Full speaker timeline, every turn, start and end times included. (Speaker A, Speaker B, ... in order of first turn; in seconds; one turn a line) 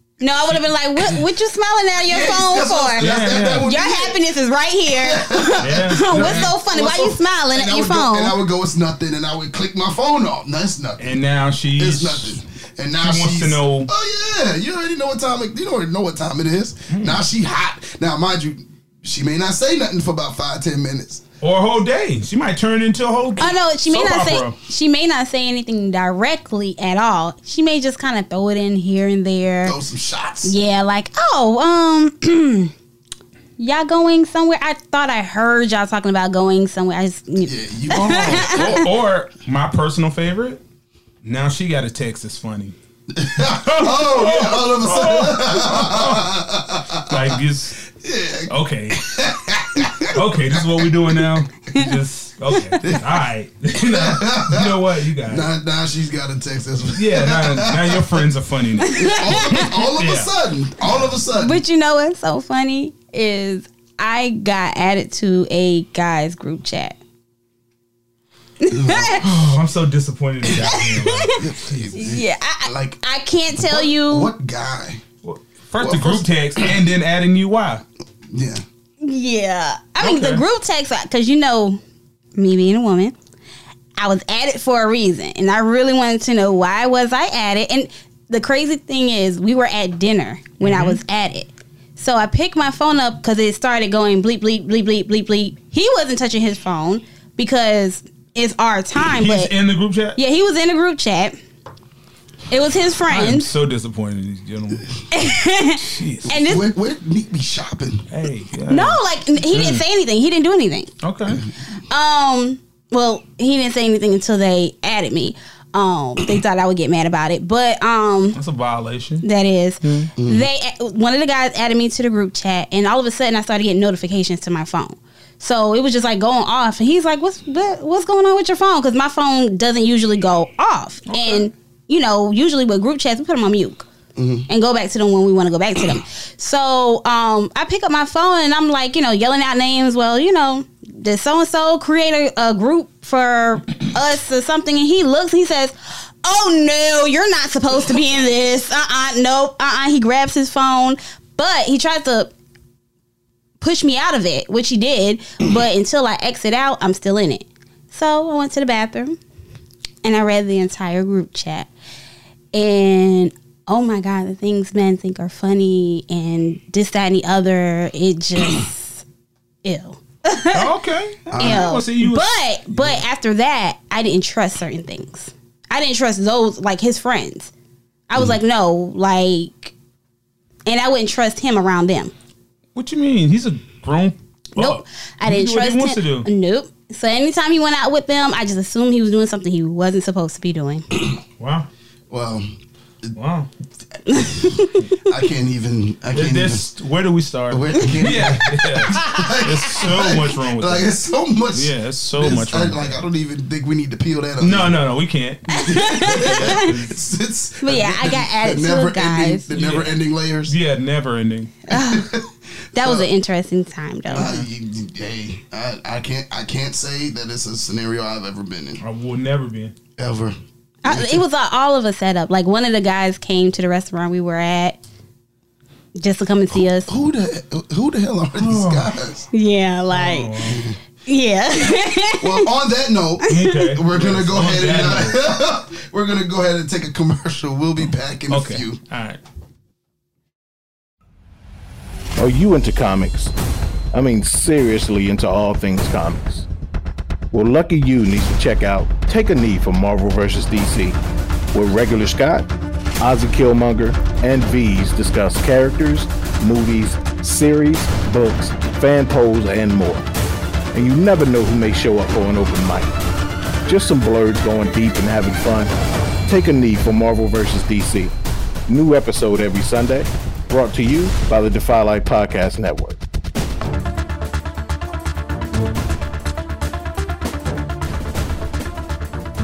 Speaker A: 0.2-8.4
Speaker B: 2.0-4.2
Speaker C: 3.0-3.7
Speaker B: 4.9-11.2
Speaker C: 5.6-6.5
Speaker C: 11.0-12.4
Speaker B: 11.8-21.2
Speaker C: 13.0-13.9
Speaker C: 16.9-17.2
Speaker C: 21.4-24.6
Speaker A: 23.4-29.8
Speaker B: 29.6-30.6
Speaker A: 30.4-32.7
Speaker A: 33.6-38.9
Speaker B: 37.4-38.8
Speaker C: 38.3-40.6
Speaker C: 41.2-42.8
Speaker B: 43.1-51.4
Speaker C: 43.4-46.3
Speaker C: 47.1-47.8
Speaker C: 48.5-49.2
Speaker C: 50.0-55.5
Speaker B: 52.8-53.2
Speaker B: 53.7-58.3
Speaker C: 57.0-60.3
Speaker A: 58.8-59.7
Speaker B: 58.9-61.6
Speaker A: 61.4-67.0
Speaker A: 68.6-69.2
Speaker B: 68.7-69.3
Speaker C: 69.2-72.0
Speaker A: 70.6-71.4
Speaker B: 71.2-73.0
Speaker A: 72.0-74.3
Speaker B: 73.5-75.0
Speaker C: 75.2-77.8
Speaker B: 75.8-76.8
Speaker B: 78.3-78.6
Speaker A: 79.0-81.8
Speaker C: 80.0-80.4
Speaker A: 82.4-83.2
Speaker A: 84.0-99.5
Speaker C: 90.6-91.0
Speaker C: 99.1-100.2
Speaker A: 100.2-101.4
Speaker A: 102.5-103.5
Speaker C: 103.1-106.3
Speaker A: 105.1-106.7
Speaker B: 106.3-108.1
Speaker C: 108.1-109.8
Speaker A: 108.7-110.9
Speaker C: 111.0-111.5
Speaker A: 111.9-118.4
Speaker C: 118.3-119.2
Speaker A: 119.2-133.9
Speaker C: 119.8-120.1
Speaker B: 120.2-120.5
Speaker C: 131.1-131.5
Speaker B: 134.2-134.5
Speaker A: 134.5-152.3
Speaker A: 153.6-159.2
Speaker A: 160.0-161.7
Speaker A: 162.5-169.0
Speaker A: 169.6-170.7
Speaker C: 170.5-173.0
Speaker B: 171.3-171.8
Speaker A: 171.4-177.5
Speaker A: 178.1-179.7
Speaker A: 180.7-182.1
Speaker C: 182.8-186.3
Speaker A: 184.6-190.9
Speaker C: 191.4-191.7
Speaker B: 192.1-193.1
Speaker C: 193.2-193.5
Speaker A: 194.1-195.0
Speaker B: 195.0-196.7
Speaker C: 196.1-200.9
Speaker B: 197.5-204.8
Speaker C: 201.5-203.0
Speaker C: 204.4-207.0
Speaker A: 205.5-206.6
Speaker B: 205.6-210.6
Speaker A: 207.6-209.5
Speaker C: 209.5-211.6
Speaker A: 211.7-212.2
Speaker B: 211.7-213.1
Speaker A: 212.8-214.4
Speaker B: 214.1-218.8
Speaker C: 218.8-219.7
Speaker B: 220.0-221.2
Speaker A: 220.8-224.8
Speaker A: 225.9-226.9
Speaker B: 226.8-229.3
Speaker C: 228.4-228.9
Speaker A: 229.3-232.5
Speaker C: 229.9-230.7
Speaker B: 230.4-230.8
Speaker B: 232.2-238.8
Speaker C: 233.3-235.2
Speaker A: 233.3-233.6
Speaker C: 238.3-239.2
Speaker D: 242.2-243.3
Speaker D: 243.9-246.5
Speaker D: 247.3-251.0
Speaker D: 251.5-252.5
Speaker D: 253.0-260.1
Speaker D: 260.7-263.0
Speaker D: 263.7-265.7
Speaker D: 266.3-268.1
Speaker D: 268.7-273.0